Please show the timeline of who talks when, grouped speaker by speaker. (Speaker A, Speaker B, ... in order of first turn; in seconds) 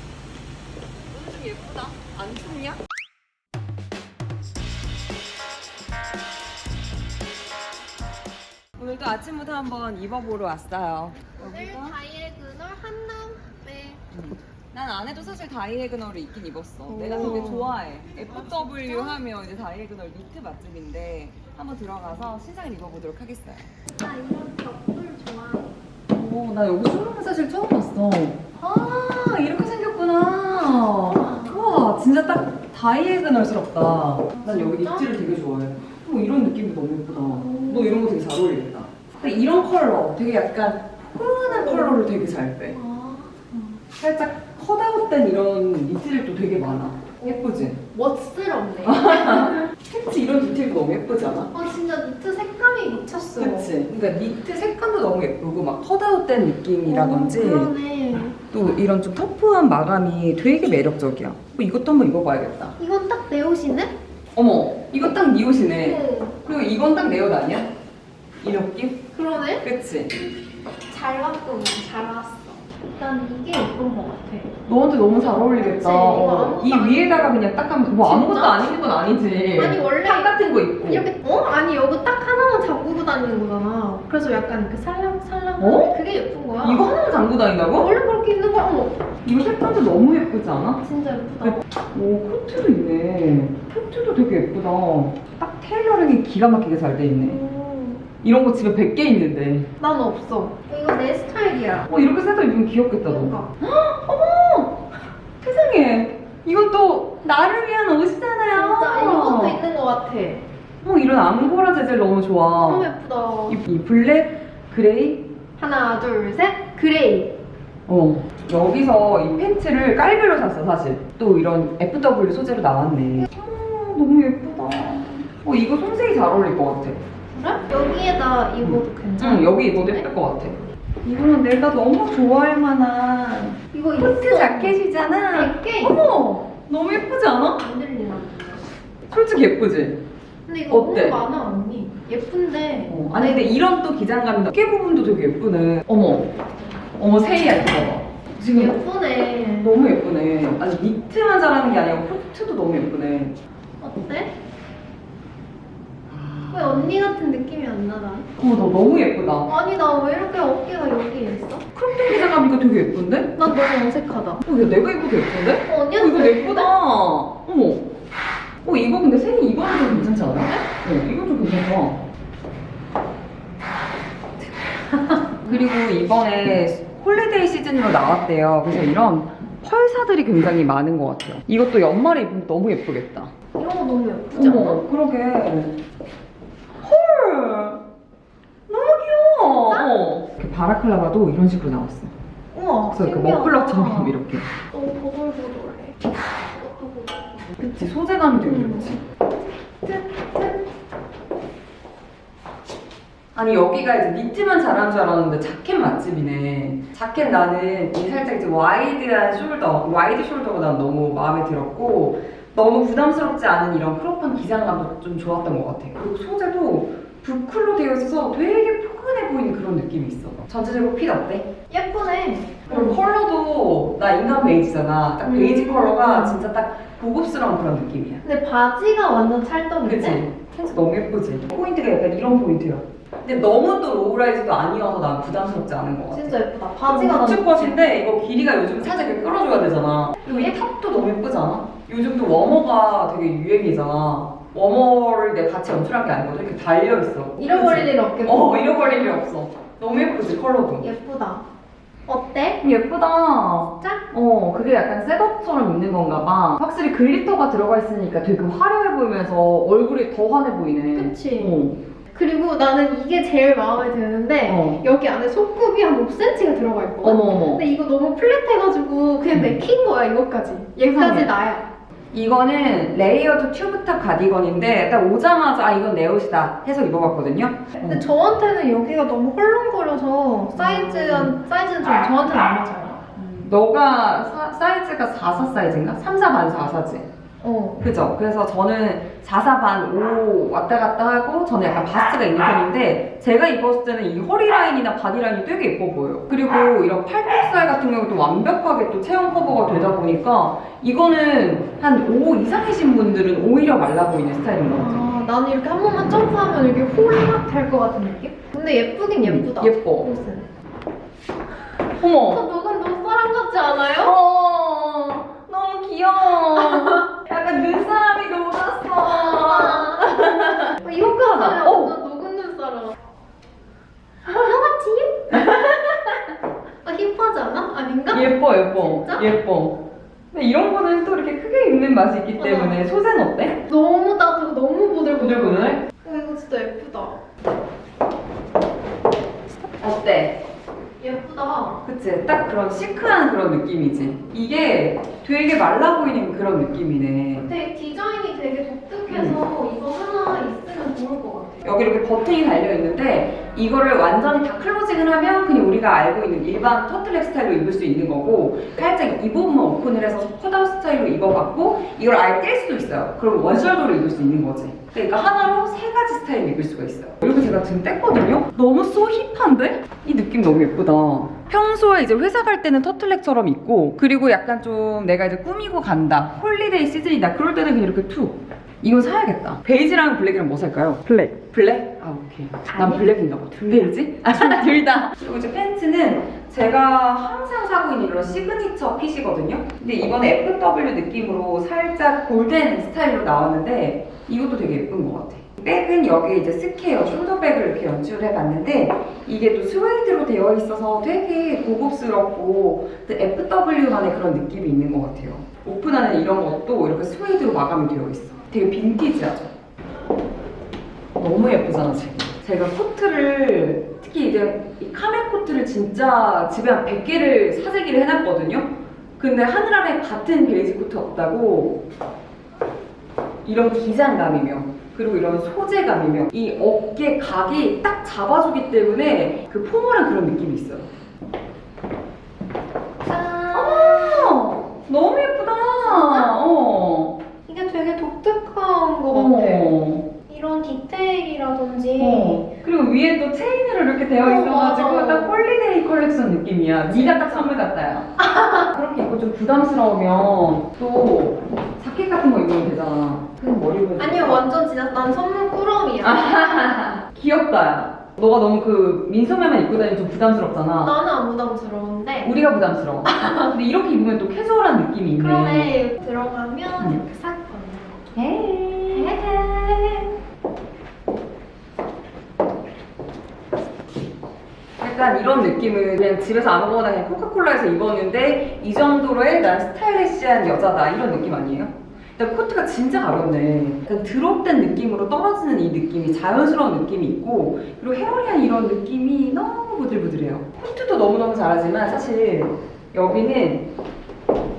Speaker A: 1.1-2.8, 8.8-12.0, 14.1-23.7, 26.1-42.8, 44.0-47.8, 48.8-51.5, 53.1-57.7, 58.3-62.8, 64.3-67.7, 68.4-69.0, 69.6-70.1, 74.6-81.1, 85.6-86.0, 86.6-87.9, 89.2-90.8, 91.4-97.4, 98.2-99.7, 101.9-104.8, 105.4-109.6, 110.8-112.9, 113.5-115.3, 117.9-127.0, 128.6-137.6, 139.1-140.0, 140.7-141.2, 142.9-146.3, 147.0-148.8, 149.6-153.4, 156.1-156.9, 158.4-159.5, 161.7-163.3, 164.4-167.9, 168.6-172.0, 175.4-183.3, 184.3-185.7, 186.8-187.8, 188.7-192.1, 192.9-194.5, 197.6-199.0, 203.3-221.5, 222.7-228.2, 229.8-250.9, 252.6-261.8, 264.4-264.8, 267.0-267.6, 269.3-269.6, 270.9-271.3, 272.1-278.0, 280.6-281.3, 283.1-287.1, 287.8-305.0, 309.2-310.1, 312.0-312.4, 314.0-321.9, 325.3-326.2, 328.1-329.8, 330.3-333.6, 335.1-335.8, 339.8-340.4, 341.8-347.5, 349.1-349.4, 351.6-409.5, 411.1-421.8, 423.4-430.9, 433.5-437.2, 439.1-440.1, 442.0-448.1, 448.7-454.4, 456.0-460.9, 462.2-465.8, 468.1-469.4, 474.8-493.7
Speaker B: 11.4-14.0, 16.9-17.7, 18.3-19.2, 23.9-25.7, 30.5-31.7, 34.4-35.1, 37.2-38.1, 41.4-42.0, 42.7-43.8, 47.2-49.6, 51.5-53.7, 56.9-58.4, 62.8-63.9, 65.8-66.3, 69.1-69.6, 70.9-74.5, 75.4-78.7, 79.5-86.9, 87.7-89.0, 90.8-91.6, 97.2-98.0, 99.8-101.9, 103.0-103.5, 108.5-110.4, 112.6-113.6, 115.6-117.3, 127.3-130.1, 133.7-134.8, 135.3-136.0, 137.6-138.6, 140.4-143.6, 148.5-149.8, 153.8-154.3, 156.5-158.3, 159.4-162.3, 163.3-164.4, 165.7-166.7, 174.9-175.2, 183.5-184.8, 189.7-189.9, 192.5-194.2, 194.7-197.5, 198.4-198.9, 199.8-200.7, 221.7-223.0, 225.2-226.4, 228.2-230.2, 236.1-237.8, 240.2-240.6, 247.4-249.2, 250.8-251.4, 252.1-252.6, 260.9-261.6, 262.1-271.7, 277.8-283.0, 287.4-287.8, 304.7-310.5, 312.2-314.1, 316.5-317.1, 319.0-322.9, 324.4-325.4, 326.8-329.2, 332.4-332.8, 333.7-337.2, 341.0-341.8, 347.4-351.7, 433.0-434.5, 435.8-436.4, 437.4-439.7, 440.3-442.5, 444.2-445.4, 446.9-447.6, 448.2-448.7, 453.4-456.3, 460.8-462.3, 463.0-463.5, 465.2-470.2